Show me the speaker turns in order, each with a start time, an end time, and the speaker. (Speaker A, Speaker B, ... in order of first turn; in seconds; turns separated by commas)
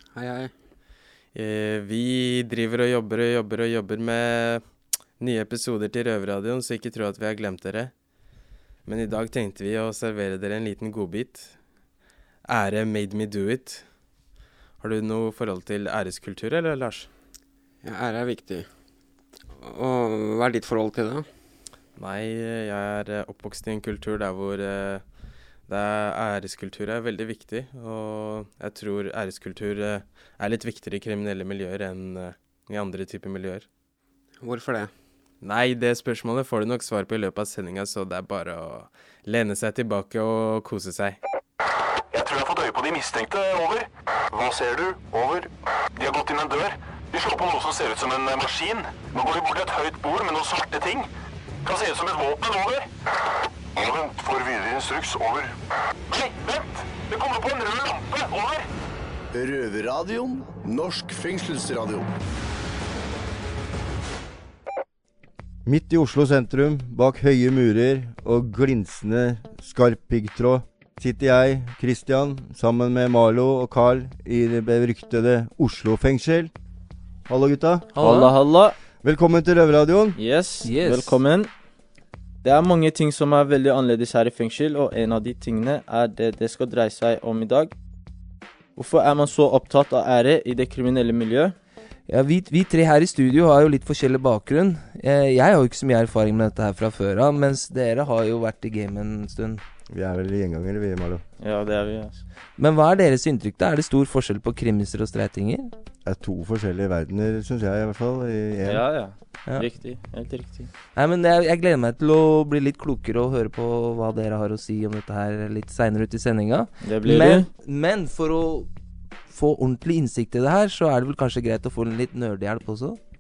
Speaker A: 0.1-0.5, Speaker B: 1.3-4.6, Speaker B: 5.2-8.0, Speaker B: 8.8-11.8, Speaker B: 12.4-14.1, Speaker B: 14.8-17.1, Speaker A: 17.8-18.8, Speaker A: 19.6-21.3, Speaker B: 21.9-33.7, Speaker A: 34.4-35.0, Speaker B: 35.4-41.2, Speaker C: 42.1-51.1, Speaker C: 51.6-52.9, Speaker C: 53.8-55.5, Speaker C: 56.1-58.7, Speaker C: 59.3-62.0, Speaker D: 65.6-76.5, Speaker D: 77.3-77.9, Speaker E: 77.9-78.3, Speaker F: 78.0-78.7, Speaker D: 79.0-80.2, Speaker F: 80.2-81.5, Speaker E: 80.6-81.2, Speaker F: 82.4-87.7, Speaker F: 88.8-91.5, Speaker E: 92.1-99.6, Speaker D: 99.9-101.2, Speaker F: 101.4-102.2, Speaker E: 102.6-105.7, Speaker D: 106.0-109.1, Speaker F: 108.6-110.7, Speaker E: 110.9-118.7, Speaker F: 116.8-117.5, Speaker E: 119.3-123.0